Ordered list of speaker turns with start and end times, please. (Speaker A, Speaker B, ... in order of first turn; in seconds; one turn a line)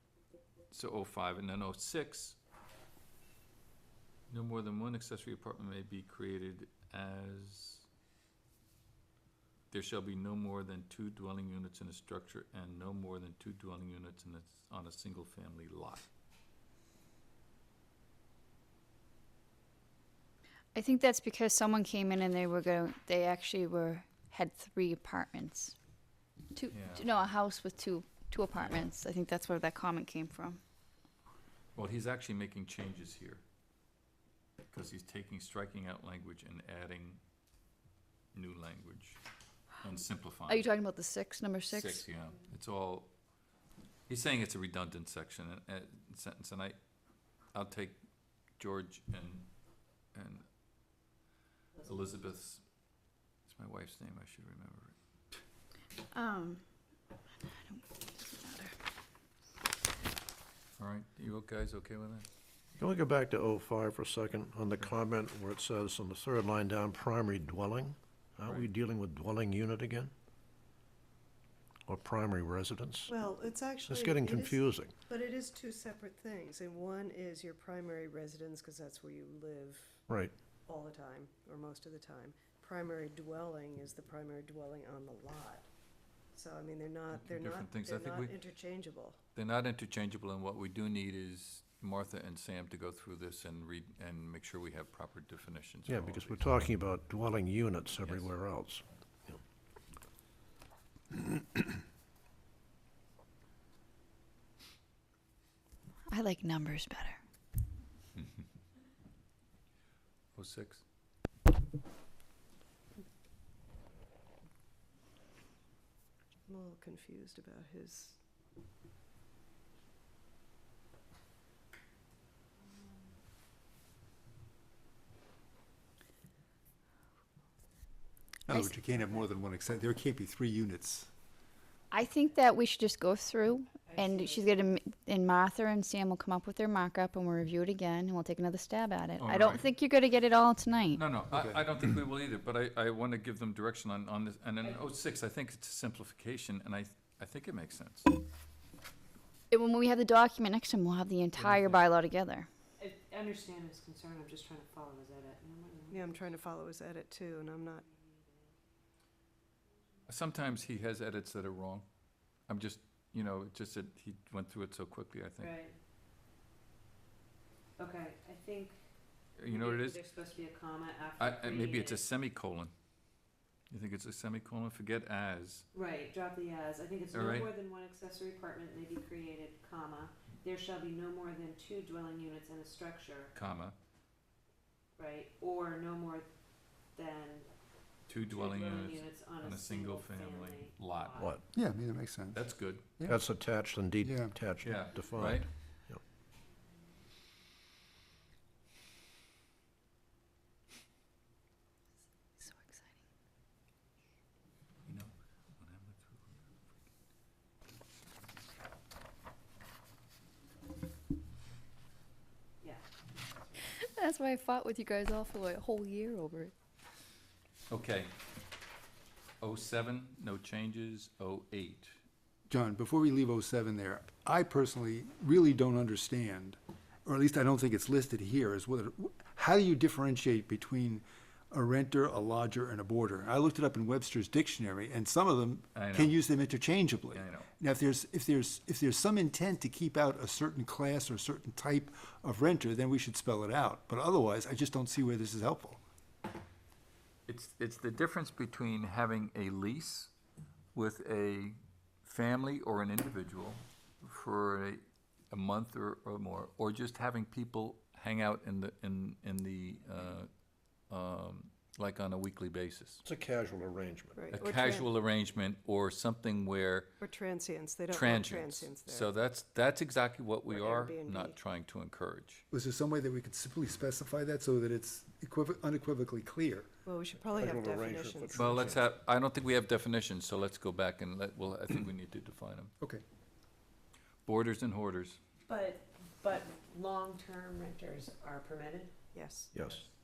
Speaker A: 0.7-2.4
Speaker A: 4.3-7.9
Speaker A: 9.7-16.1
Speaker B: 20.8-25.7
Speaker B: 26.5-30.6
Speaker A: 26.7-27.1
Speaker A: 28.6-28.9
Speaker A: 31.8-33.4
Speaker A: 34.7-37.2
Speaker A: 38.3-39.2
Speaker A: 39.8-40.7
Speaker B: 40.5-42.1
Speaker A: 41.7-43.1
Speaker A: 44.1-46.8
Speaker A: 47.5-48.0
Speaker A: 48.6-49.5
Speaker A: 50.1-50.5
Speaker A: 51.8-52.6
Speaker A: 53.5-55.0
Speaker B: 56.1-56.6
Speaker B: 57.4-58.7
Speaker A: 60.8-62.3
Speaker C: 62.8-70.1
Speaker C: 71.9-73.1
Speaker D: 73.1-80.0
Speaker C: 73.9-74.9
Speaker D: 80.7-85.7
Speaker D: 86.3-89.2
Speaker A: 87.2-88.4
Speaker A: 89.4-96.5
Speaker C: 95.9-99.4
Speaker A: 98.0-98.3
Speaker C: 101.1-101.4
Speaker B: 106.1-107.2
Speaker A: 110.3-110.8
Speaker D: 116.5-118.2
Speaker E: 128.5-131.1
Speaker B: 131.9-141.0
Speaker F: 133.9-134.6
Speaker A: 139.2-139.7
Speaker A: 140.9-148.1
Speaker E: 141.3-141.9
Speaker B: 149.5-152.5
Speaker A: 151.4-151.8
Speaker F: 152.8-156.2
Speaker D: 155.9-157.8
Speaker F: 157.9-158.2
Speaker A: 160.1-161.9
Speaker A: 162.5-165.5
Speaker F: 165.4-165.8
Speaker F: 167.8-168.8
Speaker A: 169.4-170.0
Speaker F: 169.5-172.0
Speaker A: 171.2-172.7
Speaker A: 173.7-175.7
Speaker F: 175.7-183.3
Speaker A: 177.1-177.5
Speaker A: 183.3-183.8
Speaker F: 185.0-186.3
Speaker F: 186.9-187.5
Speaker A: 188.1-191.2
Speaker F: 188.3-191.4
Speaker E: 191.5-193.2
Speaker A: 192.3-192.9
Speaker C: 193.1-196.0
Speaker E: 194.0-194.4
Speaker A: 194.6-195.5
Speaker B: 202.4-202.9
Speaker A: 204.9-206.4
Speaker B: 213.8-216.5
Speaker A: 217.7-218.1
Speaker A: 219.4-222.0
Speaker E: 222.5-245.8
Speaker A: 235.8-236.2
Speaker A: 237.1-237.5
Speaker A: 247.3-250.1
Speaker A: 250.7-260.3
Speaker A: 260.9-263.0
Speaker C: 263.1-264.2
Speaker D: 264.1-264.9
Speaker A: 264.3-266.9
Speaker D: 267.0-269.1
Speaker A: 267.9-272.4
Speaker D: 270.5-271.4
Speaker E: 272.5-276.7
Speaker D: 276.9-278.6
Speaker C: 277.3-278.9
Speaker A: 278.3-282.7
Speaker A: 284.2-285.2
Speaker F: 285.5-288.9
Speaker D: 289.1-289.5
Speaker C: 289.5-289.8